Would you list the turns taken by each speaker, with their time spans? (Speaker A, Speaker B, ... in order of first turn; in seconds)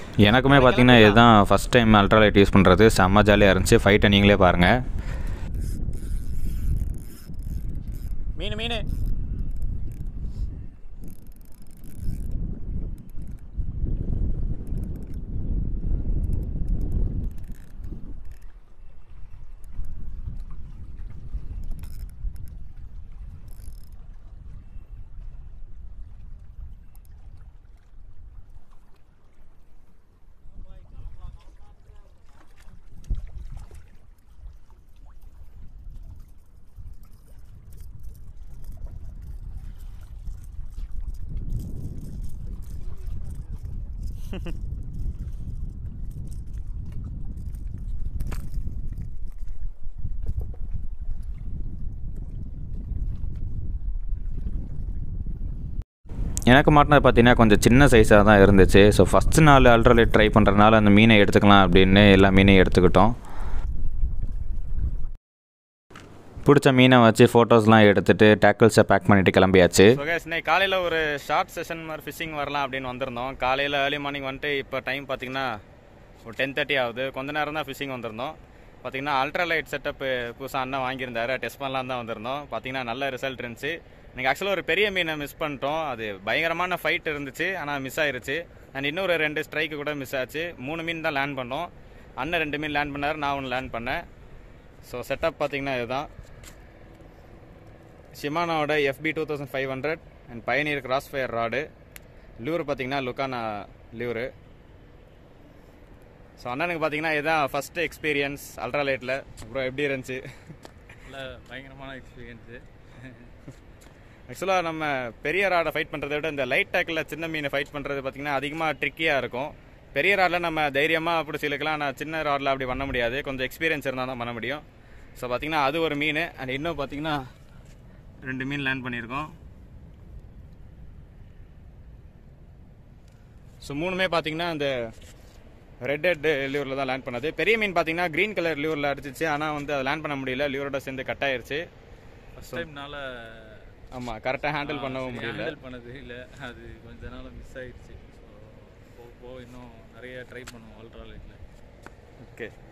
Speaker A: 0.2-4.7, 56.5-63.1, 66.5-70.0
Speaker B: 0.4-1.3, 8.4-8.8, 69.9-75.5, 76.3-94.0, 94.9-96.1, 98.2-101.7, 102.4-104.3, 106.4-110.2, 114.3-124.6, 125.2-127.2, 128.2-129.3, 133.6-134.8, 135.8-141.6, 143.9-145.6, 152.2-152.5
Speaker C: 111.1-113.2, 142.4-143.7, 144.6-151.4